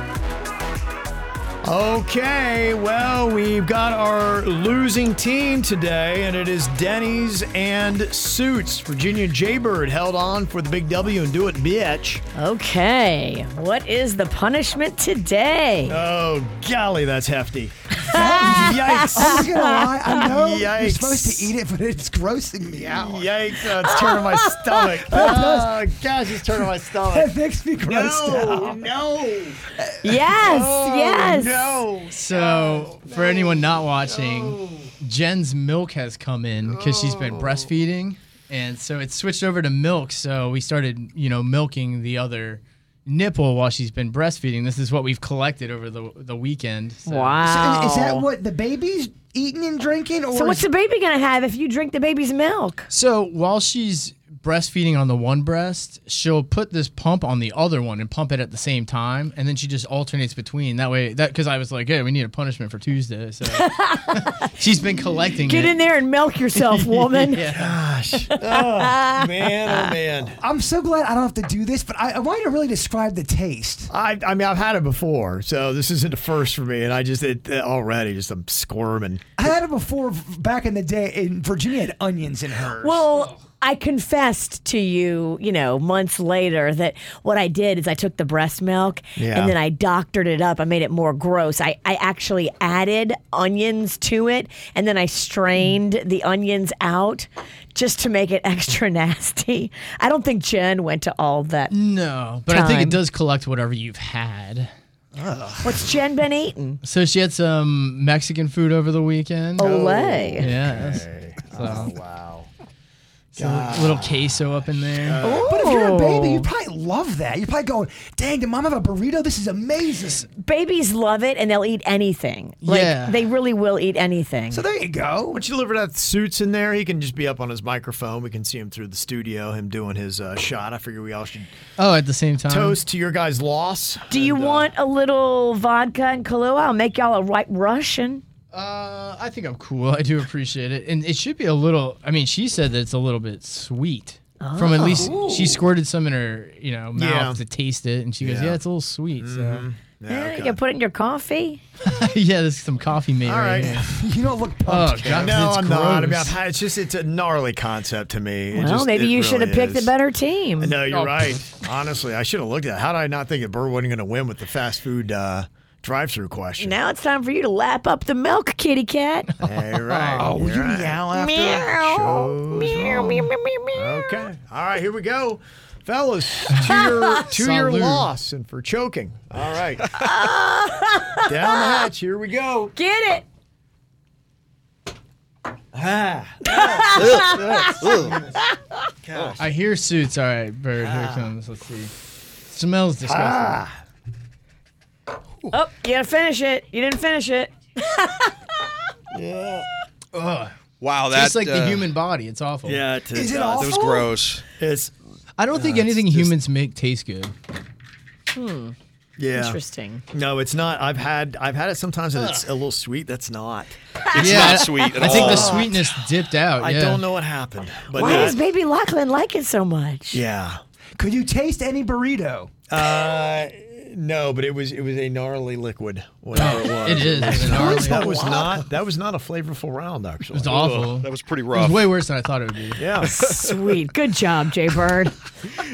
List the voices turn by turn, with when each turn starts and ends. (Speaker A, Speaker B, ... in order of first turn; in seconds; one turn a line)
Speaker A: 1.6-12.2
Speaker B: 12.3-16.0
Speaker A: 15.8-17.7
Speaker B: 18.0-20.3
Speaker C: 18.1-23.3
Speaker A: 18.6-19.4
Speaker A: 20.2-21.5
Speaker A: 22.6-29.6
Speaker B: 23.8-25.3
Speaker C: 25.1-25.8
Speaker C: 27.1-28.8
Speaker C: 29.8-30.2
Speaker B: 30.0-31.8
Speaker A: 30.3-34.9
Speaker D: 32.1-47.4
Speaker A: 36.6-37.7
Speaker B: 47.1-48.3
Speaker C: 47.4-50.7
Speaker B: 50.3-52.9
Speaker D: 52.9-65.8
Speaker B: 63.5-64.5
Speaker B: 65.4-67.6
Speaker D: 66.5-67.7
Speaker A: 67.5-70.4
Speaker B: 68.1-69.9
Speaker C: 70.4-73.9
Speaker A: 73.9-79.3
Speaker C: 79.4-83.1
Speaker B: 82.8-101.7
Speaker A: 89.2-89.5
Speaker D: 101.7-104.7
Speaker B: 102.5-103.0
Speaker C: 105.2-105.8
Speaker B: 105.6-106.8
Speaker D: 106.8-109.7
Speaker B: 109.6-110.5
Speaker A: 109.6-112.5
Speaker D: 110.4-111.9
Speaker D: 113.3-115.2
Speaker A: 113.3-115.5
Speaker B: 115.2-116.5
Speaker C: 115.4-120.3
Speaker B: 120.4-124.6
Speaker D: 122.6-123.3
Speaker C: 124.5-125.4
Speaker A: 125.3-131.5
Speaker D: 131.8-132.8
Speaker A: 132.5-134.7
Speaker B: 134.1-138.2
Speaker D: 138.5-149.6
Speaker B: 144.4-145.6
Speaker A: 146.9-147.4
Speaker A: 148.2-148.6
Speaker A: 149.2-150.6
Speaker B: 150.1-151.6
Speaker D: 151.8-153.9
Speaker A: 153.2-153.8
Speaker C: 153.8-155.4
Speaker D: 154.6-156.4
Speaker A: 155.1-159.9
Speaker B: 158.5-160.8
Speaker A: 160.6-166.8
Speaker D: 160.9-161.4
Speaker B: 166.6-169.3
Speaker A: 169.4-171.0
Speaker C: 169.9-173.2
Speaker B: 171.1-174.2
Speaker A: 171.8-172.7
Speaker A: 173.7-179.9
Speaker B: 176.5-177.2
Speaker D: 177.3-178.1
Speaker B: 179.9-181.9
Speaker A: 181.2-182.7
Speaker B: 182.7-183.2
Speaker A: 185.7-188.2
Speaker B: 186.5-188.6
Speaker E: 187.0-188.2
Speaker A: 189.1-189.4
Speaker D: 189.4-191.9
Speaker A: 190.8-191.3
Speaker D: 192.5-193.6
Speaker A: 193.0-193.8
Speaker B: 195.5-198.4
Speaker A: 199.1-199.7
Speaker D: 200.1-200.5
Speaker E: 200.8-201.9
Speaker D: 201.0-202.8
Speaker A: 202.6-203.6
Speaker C: 203.1-204.2
Speaker E: 203.4-204.5
Speaker A: 204.6-204.9
Speaker D: 205.4-207.3
Speaker A: 205.5-206.3
Speaker B: 208.3-208.7
Speaker A: 209.2-213.8
Speaker B: 209.3-210.0
Speaker D: 212.1-212.4
Speaker B: 214.0-215.7
Speaker D: 214.1-217.0
Speaker E: 214.2-215.5
Speaker A: 215.0-215.8
Speaker A: 216.6-218.4
Speaker B: 217.9-220.2
Speaker A: 220.1-220.6
Speaker C: 221.0-222.5
Speaker A: 222.7-230.5
Speaker D: 226.3-228.2
Speaker C: 227.4-227.8
Speaker B: 227.7-228.4
Speaker D: 230.3-232.8
Speaker E: 230.4-231.9
Speaker A: 232.8-233.1
Speaker B: 233.0-235.1
Speaker E: 233.0-233.5